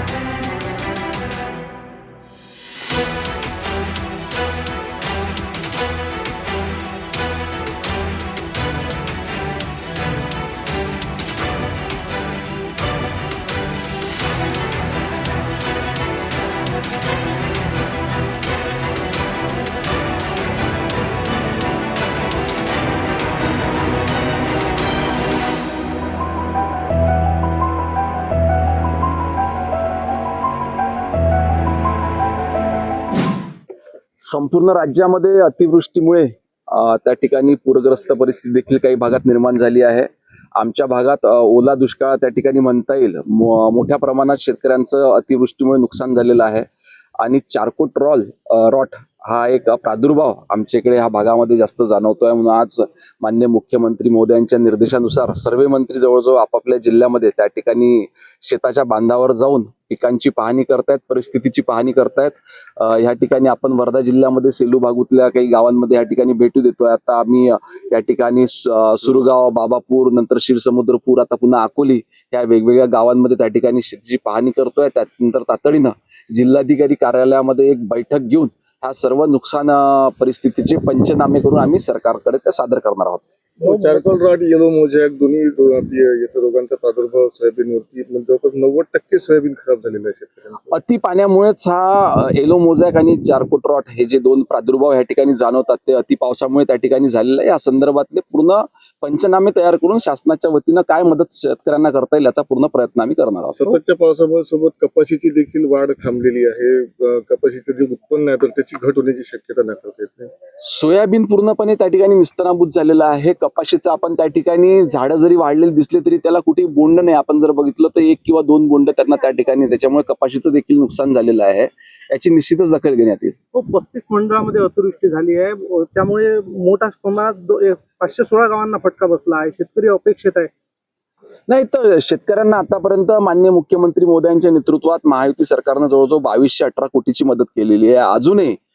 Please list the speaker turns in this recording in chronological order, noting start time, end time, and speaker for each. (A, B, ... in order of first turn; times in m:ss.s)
0:34.2-0:46.7 A
0:47.2-1:23.3 A
1:23.6-1:30.7 B
1:23.6-1:24.0 C
1:30.7-1:43.6 A
1:43.6-1:50.3 B
1:50.6-2:03.4 A
2:03.5-2:10.5 C
2:11.5-2:18.6 A